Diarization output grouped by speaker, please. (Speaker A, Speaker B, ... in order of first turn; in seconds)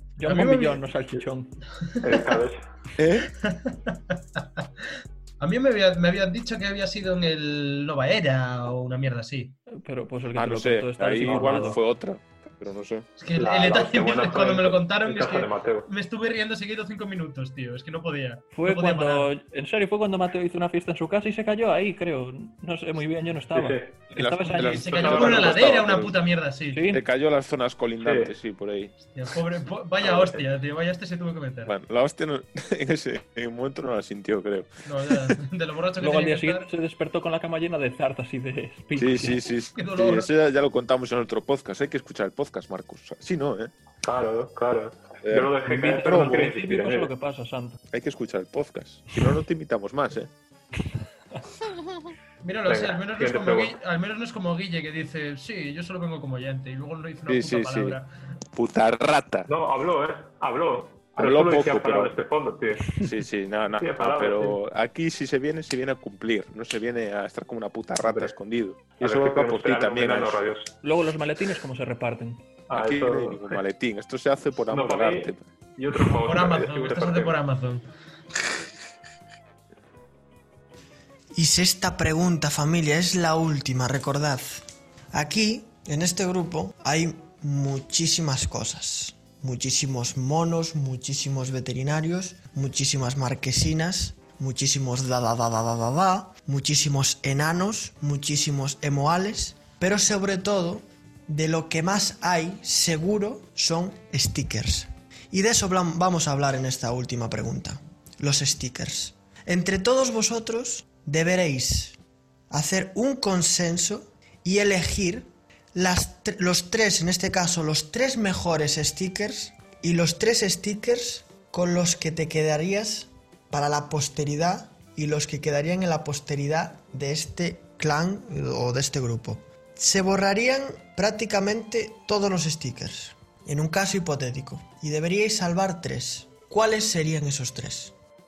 Speaker A: 0.2-1.6, 9.7-11.8, 18.5-25.2, 26.7-27.0, 36.0-39.4, 46.0-47.8, 70.8-72.5
Speaker B: 0.2-0.8, 1.8-2.4, 3.2-4.7, 5.4-9.6, 13.2-19.3, 24.7-26.9, 29.0-31.7, 34.9-36.7, 39.7-40.3, 52.4-58.1, 76.2-77.8
Speaker C: 2.0-2.6, 11.3-11.8, 13.3-15.9, 23.5-23.9, 24.7-25.7, 28.0-28.3, 30.0-30.4, 44.0-47.1, 52.6-53.7, 59.5-63.0, 63.8-64.6, 68.0-68.3, 69.0-70.7, 72.7-73.6, 74.7-77.4
Speaker D: 3.0-3.3, 10.3-13.1, 24.1-26.1, 26.9-28.9, 31.6-35.3, 39.0-43.7, 45.2-46.4, 47.9-50.3, 57.3-58.0, 58.5-59.5, 61.1-62.2, 63.0-70.4, 72.7-75.4
Speaker E: 81.3-84.6, 85.1-112.0, 112.5-137.9